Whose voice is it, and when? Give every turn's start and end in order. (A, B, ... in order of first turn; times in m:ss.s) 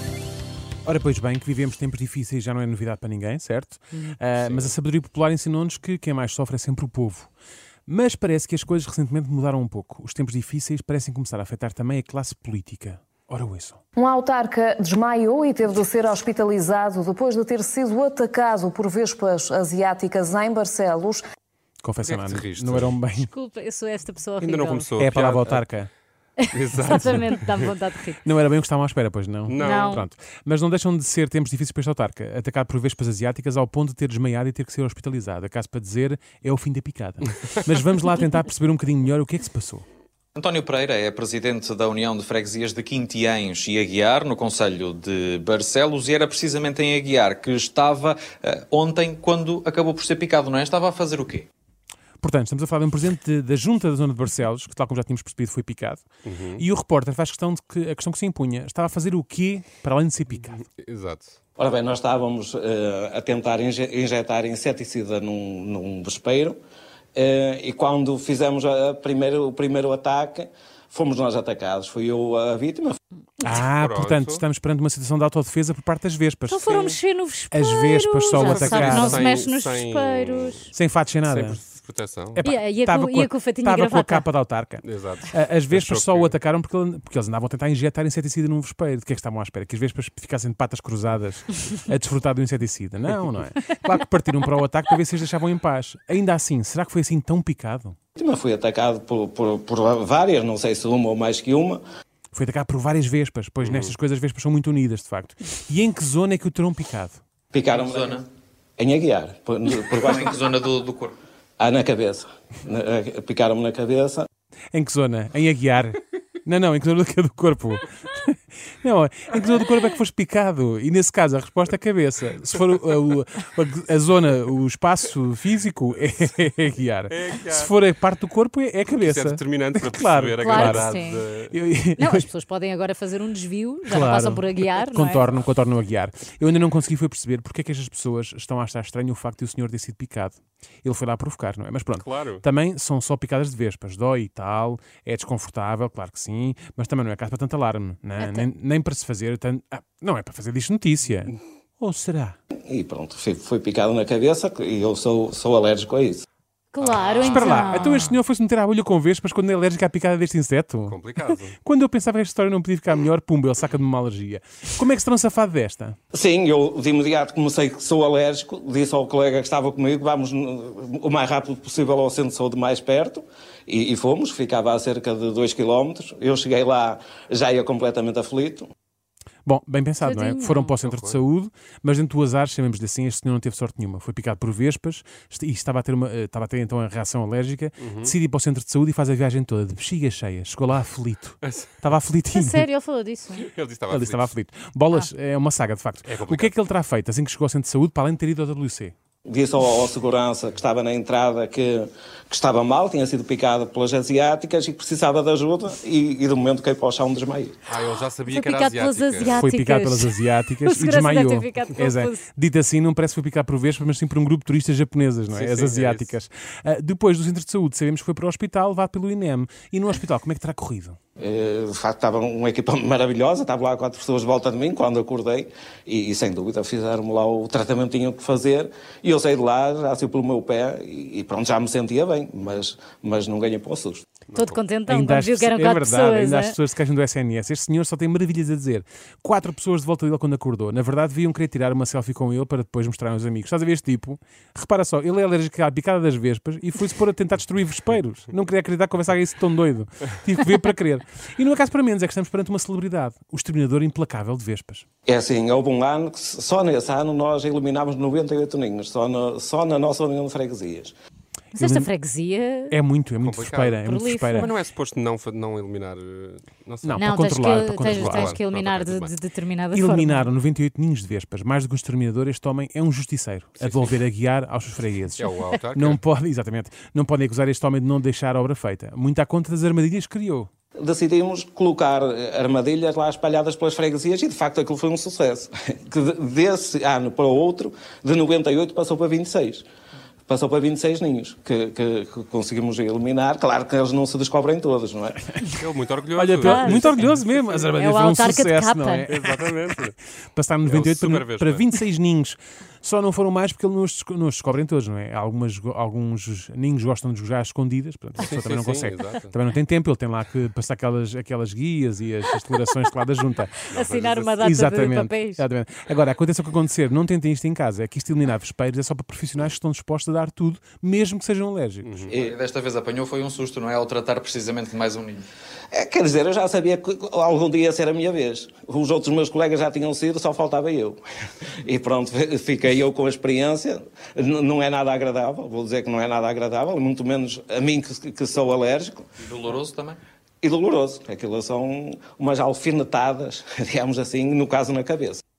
0:00.8-0:07.3 A
0:04.4-0:04.7 B
0:07.9-0:13.8 A
0:14.0-0:21.2 C
0:21.8-0:23.3 A
0:22.0-0:23.0 B
0:23.2-0:24.9 D
0:24.4-0:25.6 B
0:25.0-0:25.9 A
0:26.4-0:28.2 D
0:26.5-0:27.7 B
0:28.2-0:39.8 A
0:29.5-0:30.0 B
0:29.6-0:30.0 D
0:40.3-0:51.4 E
0:52.2-0:56.0 A
0:56.2-0:56.6 B
0:56.6-1:00.6 A
1:00.5-1:01.4 B
1:01.6-1:06.6 F
1:07.1-1:13.0 F
1:13.4-1:16.9 A
1:13.4-1:14.4 B
1:16.5-1:20.7 D
1:16.7-1:17.0 B
1:17.5-1:19.2 A
1:18.4-1:20.7 B
1:20.7-1:21.6 A
1:21.2-1:22.4 B
1:22.3-1:38.0 A
1:22.4-1:24.3 D
1:24.8-1:26.4 B
1:38.2-1:41.8 F
1:42.3-1:47.2 A
1:43.6-1:43.9 B
1:47.5-1:48.2 F
1:47.7-1:48.2 E
1:48.8-1:50.4 F
1:49.9-1:51.2 E
1:51.6-1:54.3 F
1:54.7-2:10.9 A
2:07.1-2:07.7 B
2:08.9-2:11.6 B
2:10.4-2:11.2 D
2:11.5-2:12.3 A
2:12.0-2:15.3 D
2:13.9-2:32.4 A
2:22.0-2:22.4 B
2:28.2-2:28.4 D
2:32.7-2:36.2 F
2:36.7-2:38.2 D
2:36.8-2:38.0 E
2:37.2-2:46.0 A
2:40.9-2:41.6 B
2:46.1-2:58.7 F
2:59.4-3:12.6 A
3:00.0-3:00.8 D
3:00.8-3:01.2 B
3:07.8-3:08.1 B
3:11.4-3:11.8 B
3:12.3-3:13.4 D
3:13.3-3:14.3 B
3:13.9-3:18.9 A
3:16.0-3:16.5 B
3:19.2-3:27.6 F
3:27.7-3:29.4 B
3:28.3-3:32.2 D
3:29.3-3:41.0 A
3:35.3-3:36.1 B
3:41.2-3:54.0 F
3:54.3-3:54.6 B
3:54.3-3:56.6 D
3:54.9-4:14.8 A
4:15.0-4:20.9 F
4:21.5-4:22.8 D
4:21.6-4:21.9 A
4:22.7-4:24.5 A
4:23.2-4:29.2 B
4:23.8-4:24.5 D
4:26.8-4:28.4 A
4:27.0-4:30.3 D
4:29.7-4:40.5 A
4:33.6-4:33.9 B
4:35.2-4:36.0 B
4:40.8-4:49.6 F
4:50.3-4:55.3 F
4:55.5-4:57.6 B
4:56.2-4:59.8 A
4:56.4-4:56.9 D
4:57.7-4:59.1 D
4:59.1-5:00.0 B
5:00.3-5:13.6 A
5:00.6-5:01.7 B
5:08.2-5:09.3 B
5:13.7-5:14.4 B
5:13.7-5:15.4 D
5:14.4-5:22.0 A
5:21.8-5:22.1 B
5:22.1-5:25.2 E
5:25.7-5:31.0 F
5:31.6-5:39.1 F
5:39.2-5:40.0 E
5:40.4-5:45.2 F